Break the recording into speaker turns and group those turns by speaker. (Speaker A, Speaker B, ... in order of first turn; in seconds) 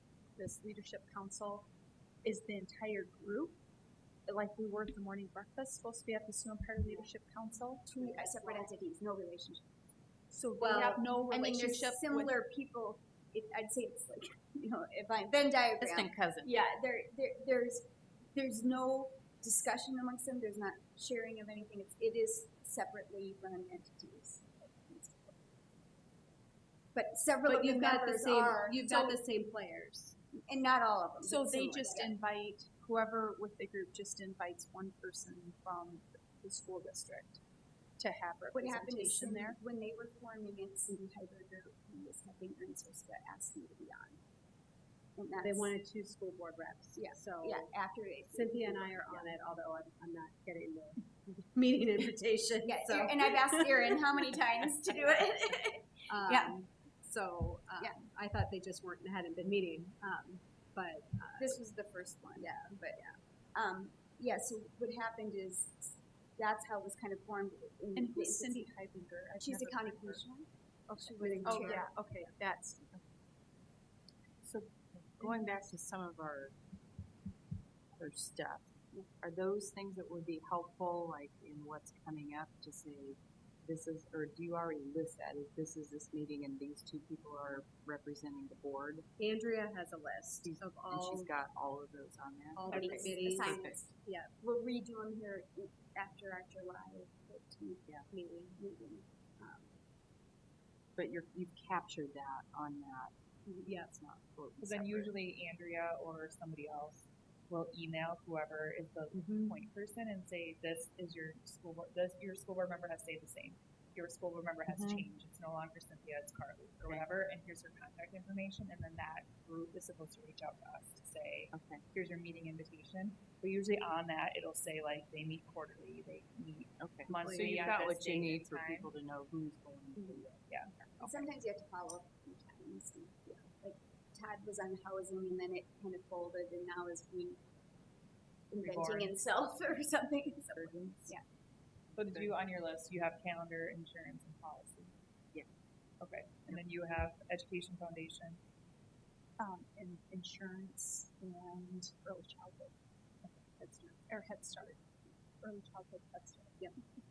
Speaker A: 0.4-1.7, 2.2-3.6, 4.3-8.4, 10.3-12.3, 31.2-37.4, 38.0-39.6, 68.0-70.2, 71.0-72.9, 149.4-156.8
Speaker B: 7.9-9.7, 11.3-25.4, 26.9-29.2, 30.3-32.1, 38.5-44.2, 45.2-45.7, 47.0-49.4, 52.7-56.6, 61.4-63.0, 63.5-68.7, 69.4-71.9, 92.7-93.8, 94.4-97.8, 98.6-99.7, 131.0-137.4, 138.5-141.2
Speaker C: 8.4-8.6, 10.6-11.0, 27.5-30.2, 45.4-47.7, 48.3-54.5, 56.1-61.6, 62.4-63.2, 71.3-71.9, 89.2-91.3, 92.5-94.3, 98.1-98.6
Speaker D: 15.8-16.6, 75.2-76.6, 78.0-89.1, 90.4-93.9, 101.0-105.1, 114.7-115.0, 121.5-121.8, 126.8-130.4, 140.6-141.2, 141.9-142.4
Speaker E: 104.6-128.9, 130.5-131.3, 138.5-139.2, 142.0-144.9, 146.0-148.4